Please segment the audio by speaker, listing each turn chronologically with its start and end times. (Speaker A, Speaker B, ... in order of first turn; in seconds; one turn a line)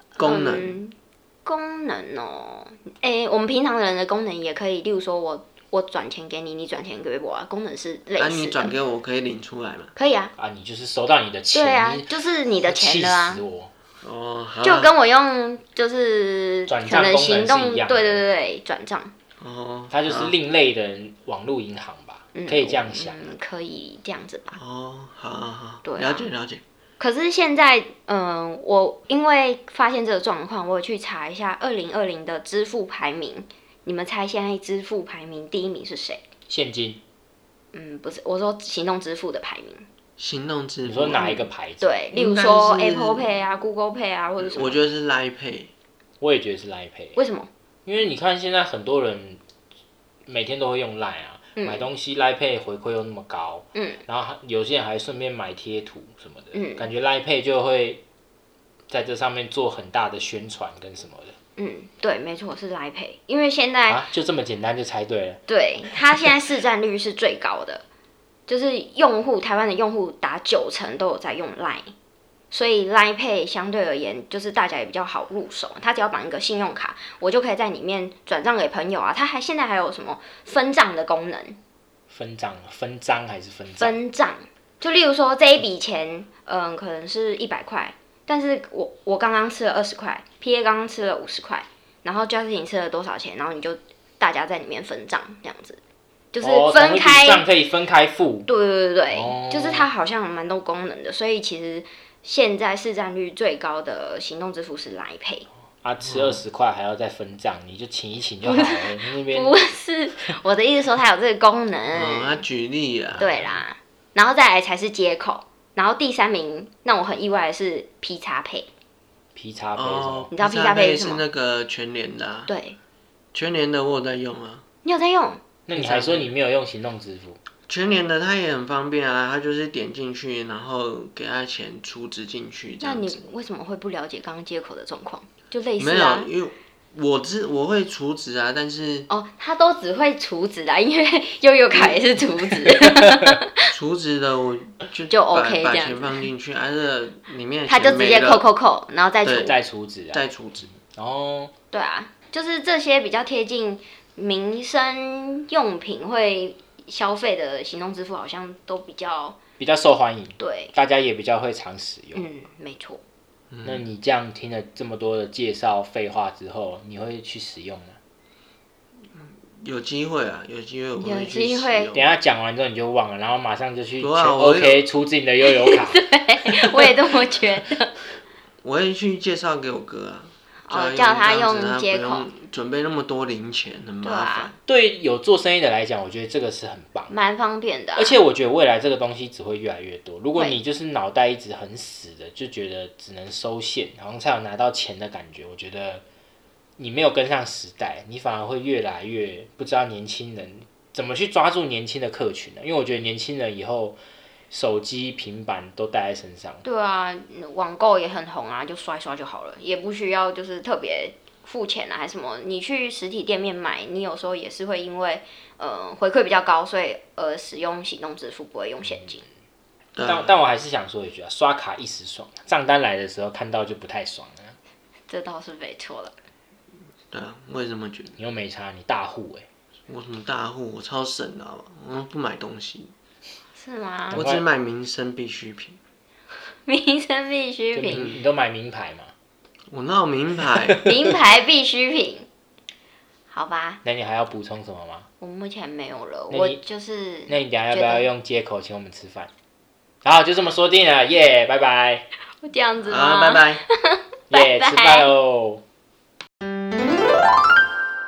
Speaker A: 0.2-0.8
Speaker B: 0.2-8.7
Speaker A: 8.2-9.9
Speaker B: 10.0-10.3
Speaker C: 10.4-12.1
Speaker B: 11.5-13.4
Speaker C: 12.6-13.7
Speaker A: 14.0-14.9
Speaker B: 14.6-19.1
Speaker C: 16.7-18.2
Speaker A: 19.4-20.4
Speaker C: 19.9-23.3
Speaker B: 22.4-24.6
Speaker A: 24.5-26.6
Speaker B: 25.8-26.3
Speaker B: 27.0-36.2
Speaker C: 36.5-37.0
Speaker B: 37.7-39.9
Speaker A: 40.2-41.3
Speaker C: 40.9-42.0
Speaker B: 41.1-44.9
Speaker A: 42.1-43.3
Speaker A: 44.4-45.7
Speaker C: 46.2-47.2
Speaker B: 47.2-47.5
Speaker C: 47.9-49.4
Speaker C: 50.3-58.0
Speaker B: 51.6-51.9
Speaker B: 53.8-54.0
Speaker B: 56.5-56.9
Speaker C: 58.9-61.4
Speaker B: 61.6-64.1
Speaker C: 63.9-65.4
Speaker B: 65.5-67.8
Speaker B: 68.5-71.9
Speaker B: 72.5-81.6
Speaker C: 82.1-84.0
Speaker B: 83.8-95.8
Speaker B: 96.3-97.5
Speaker C: 96.4-98.5
Speaker B: 98.5-105.5
Speaker C: 99.1-99.9
Speaker C: 105.8-109.6
Speaker A: 106.1-106.4
Speaker B: 108.4-112.4
Speaker A: 111.9-113.3
Speaker C: 113.2-113.6
Speaker B: 113.2-118.7
Speaker C: 119.4-120.3
Speaker A: 119.8-122.5
Speaker B: 120.3-121.2
Speaker B: 122.5-122.8
Speaker A: 123.3-124.6
Speaker B: 124.8-125.4
Speaker C: 125.7-127.4
Speaker A: 125.8-126.3
Speaker A: 127.7-133.3
Speaker B: 132.8-136.3
Speaker A: 135.8-139.1
Speaker B: 139.1-143.6
Speaker A: 141.7-142.2
Speaker A: 143.7-148.4
Speaker B: 145.1-146.2
Speaker B: 147.7-149.6
Speaker A: 149.2-149.6
Speaker C: 149.4-150.3
Speaker A: 150.1-150.8
Speaker C: 150.8-151.5
Speaker B: 151.7-159.4
Speaker C: 159.6-162.3
Speaker B: 160.4-160.7
Speaker B: 162.1-163.0
Speaker A: 163.5-163.8
Speaker C: 163.6-168.0
Speaker A: 169.2-172.1
Speaker B: 171.0-171.9
Speaker C: 171.9-176.1
Speaker A: 174.0-174.9
Speaker B: 175.6-178.0
Speaker A: 178.6-184.6
Speaker B: 180.7-182.3
Speaker B: 184.0-184.5
Speaker C: 184.7-187.1
Speaker B: 187.1-188.2
Speaker C: 188.0-196.0
Speaker B: 190.3-190.6
Speaker C: 196.8-204.0
Speaker C: 204.5-206.6
Speaker B: 206.6-219.2
Speaker A: 219.9-220.4
Speaker C: 220.0-224.6
Speaker B: 225.1-226.1
Speaker A: 227.1-228.2
Speaker C: 228.2-229.5
Speaker A: 229.9-232.9
Speaker B: 233.6-234.2
Speaker C: 234.1-234.4
Speaker A: 234.1-235.8
Speaker B: 236.5-238.1
Speaker C: 237.7-239.1
Speaker A: 237.9-238.2
Speaker A: 239.7-240.8
Speaker B: 240.8-242.3
Speaker B: 243.3-243.8
Speaker C: 243.8-245.1
Speaker B: 245.2-248.1
Speaker C: 246.3-246.6
Speaker C: 247.3-249.3
Speaker C: 250.0-252.1
Speaker B: 252.4-255.1
Speaker A: 252.8-253.6
Speaker C: 254.3-255.6